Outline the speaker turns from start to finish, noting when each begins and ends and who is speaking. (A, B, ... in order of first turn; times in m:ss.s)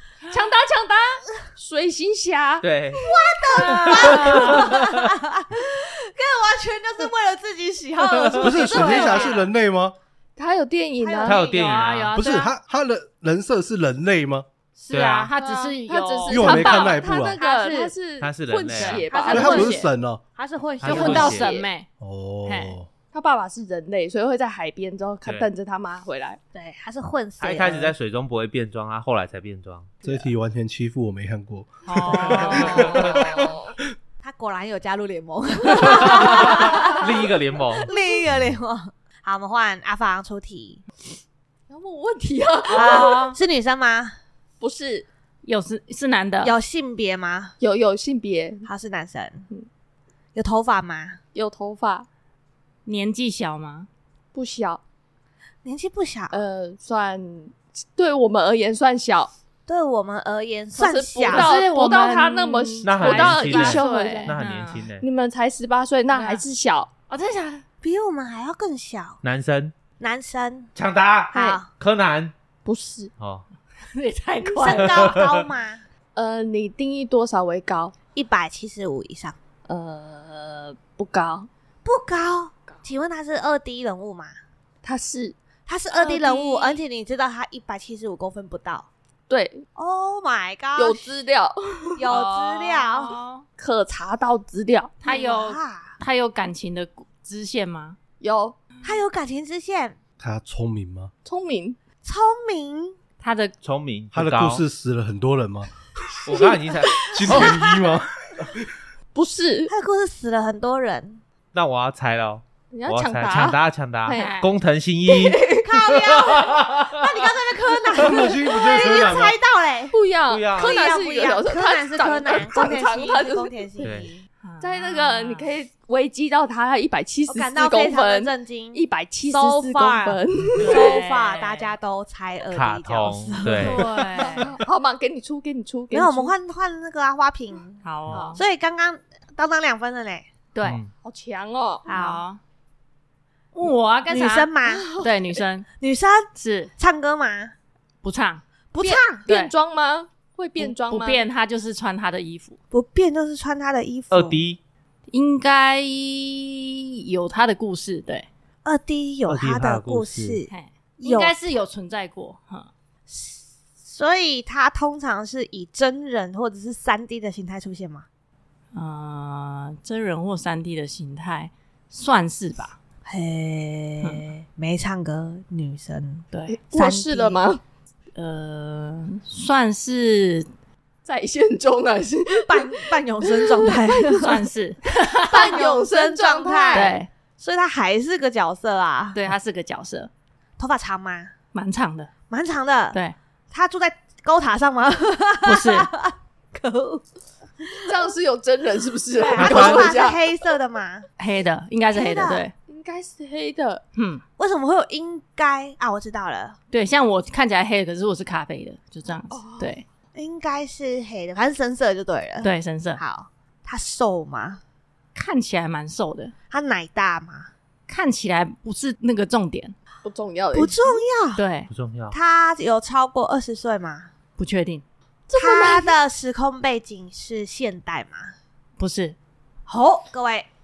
0:00.3-0:03.1 A
0:02.6-0:03.0 B
0:03.0-0:09.4 C
0:03.7-0:04.7 D
0:03.9-0:05.0 B
0:08.4-0:10.0 E
0:08.7-0:09.4 A
0:10.4-0:11.8 A
0:11.0-0:11.8 C
0:11.2-0:12.1 B
0:11.5-0:12.5 D
0:12.1-0:14.4 E
0:14.8-0:16.9 D
0:14.9-0:15.3 B
0:15.4-0:19.8 A
0:16.3-0:17.4 E
0:17.4-0:17.9 C
0:18.2-0:19.1 B
0:18.8-0:19.9 D
0:19.1-0:19.8 C
0:19.3-0:20.2 E
0:20.3-0:21.5 C
0:20.8-0:21.5 B
0:20.8-0:21.9 D
0:20.9-0:21.7 A
0:22.0-0:22.9 E
0:22.4-0:22.8 D
0:23.1-0:26.4 A
0:26.5-0:27.9 C
0:27.4-0:30.0 B
0:30.0-0:33.5 E
0:31.9-0:33.0 D
0:32.5-0:33.2 B
0:32.7-0:33.7 A
0:34.2-0:37.1 C
0:35.8-0:37.9 B
0:35.8-0:36.9 A
0:37.8-0:40.8 C
0:41.7-0:43.3 A
0:42.7-0:43.4 D
0:42.7-0:44.2 C
0:44.6-0:45.1 A
0:45.4-0:46.6 D
0:46.4-0:47.5 C
0:47.6-0:48.7 A
0:48.6-0:49.5 C
0:50.3-0:51.2 C
0:51.3-0:52.1 A
0:52.8-0:53.9 D
0:54.3-0:54.8 A
0:55.6-0:56.4 C
0:56.3-0:59.3 A
0:59.7-1:01.5 C
1:00.8-1:04.4 A
1:01.3-1:04.8 D
1:02.8-1:05.0 B
1:05.0-1:06.9 A
1:06.1-1:06.4 D
1:07.1-1:07.6 D
1:07.8-1:09.2 C
1:09.2-1:09.7 B
1:10.0-1:10.7 C
1:10.8-1:12.3 B
1:11.3-1:11.6 C
1:12.6-1:13.1 A
1:13.2-1:13.4 B
1:13.9-1:15.2 D
1:14.6-1:15.8 C
1:14.7-1:15.4 B
1:16.1-1:17.9 A
1:18.1-1:19.4 C
1:19.7-1:21.5 A
1:21.8-1:24.4 C
1:24.8-1:25.4 A
1:25.7-1:28.9 C
1:26.0-1:26.7 A
1:26.0-1:26.6 D
1:29.3-1:29.6 A
1:29.7-1:31.2 C
1:30.8-1:32.0 A
1:32.0-1:33.1 C
1:32.1-1:33.4 D
1:33.6-1:35.0 A
1:35.0-1:38.0 D
1:35.0-1:36.0 C
1:38.2-1:38.6 A
1:38.8-1:40.0 C
1:40.2-1:41.1 E
1:41.2-1:41.8 A
1:42.0-1:43.0 C
1:43.2-1:43.5 D
1:43.6-1:44.6 B
1:44.1-1:46.3 E
1:46.2-1:47.5 B
1:46.3-1:47.5 A
1:47.1-1:48.7 E
1:49.1-1:49.7 A
1:49.7-1:51.2 C
1:51.5-1:56.9 B
1:52.7-1:54.4 A
1:54.1-1:54.5 D
1:55.1-1:55.7 A
1:55.6-2:00.0 C
1:57.9-1:59.4 E
1:59.9-2:04.1 A
2:00.3-2:00.8 B
2:00.5-2:04.2 C
2:03.8-2:04.1 B
2:04.4-2:05.5 D
2:04.6-2:11.0 A
2:07.3-2:14.5 C
2:10.6-2:11.7 D
2:12.5-2:13.9 B
2:13.4-2:14.5 D
2:14.2-2:16.3 A
2:15.9-2:17.8 C
2:17.8-2:18.4 D
2:18.1-2:18.4 A
2:18.3-2:20.3 C
2:20.5-2:20.8 D
2:20.6-2:20.9 B
2:21.0-2:21.8 A
2:21.9-2:22.2 C
2:21.9-2:22.4 D
2:23.5-2:25.7 D
2:24.1-2:24.9 C
2:24.6-2:25.1 A
2:25.8-2:27.5 C
2:26.3-2:26.7 D
2:28.0-2:28.4 D
2:28.7-2:29.2 C
2:28.8-2:31.2 A
2:29.2-2:29.5 D
2:30.6-2:32.6 D
2:32.7-2:34.4 C
2:34.1-2:34.6 B
2:35.1-2:38.3 D
2:38.6-2:40.5 C
2:39.3-2:40.4 B
2:40.5-2:42.7 D
2:41.0-2:41.4 C
2:43.1-2:48.0 C
2:48.7-2:52.8 D
2:53.0-2:57.4 C
2:56.3-2:56.6 D
2:56.5-2:57.6 A
2:58.1-3:00.5 D
3:01.0-3:04.2 A
3:02.3-3:04.4 C
3:04.2-3:05.6 D
3:05.3-3:07.0 A
3:05.3-3:09.2 C
3:06.7-3:07.1 D
3:09.1-3:10.1 D
3:10.6-3:11.3 C
3:11.5-3:12.1 D
3:12.3-3:13.0 C
3:13.5-3:17.0 C
3:15.4-3:15.9 D
3:17.6-3:18.0 C
3:17.9-3:20.2 A
3:19.2-3:21.1 C
3:19.4-3:19.9 B
3:21.2-3:22.5 D
3:21.9-3:22.5 C
3:22.7-3:23.8 A
3:23.9-3:24.2 D
3:24.4-3:26.6 C
3:26.7-3:29.8 D
3:29.3-3:29.8 A
3:30.1-3:34.6 C
3:32.4-3:33.0 D
3:35.1-3:36.3 D
3:36.5-3:37.5 C
3:37.9-3:39.7 D
3:40.0-3:41.0 A
3:40.5-3:41.4 C
3:41.4-3:41.7 D
3:41.7-3:42.2 B
3:42.1-3:44.1 C
3:44.4-3:44.8 D
3:45.3-3:45.9 A
3:45.4-3:48.3 C
3:48.8-3:49.2 D
3:49.7-3:50.5 C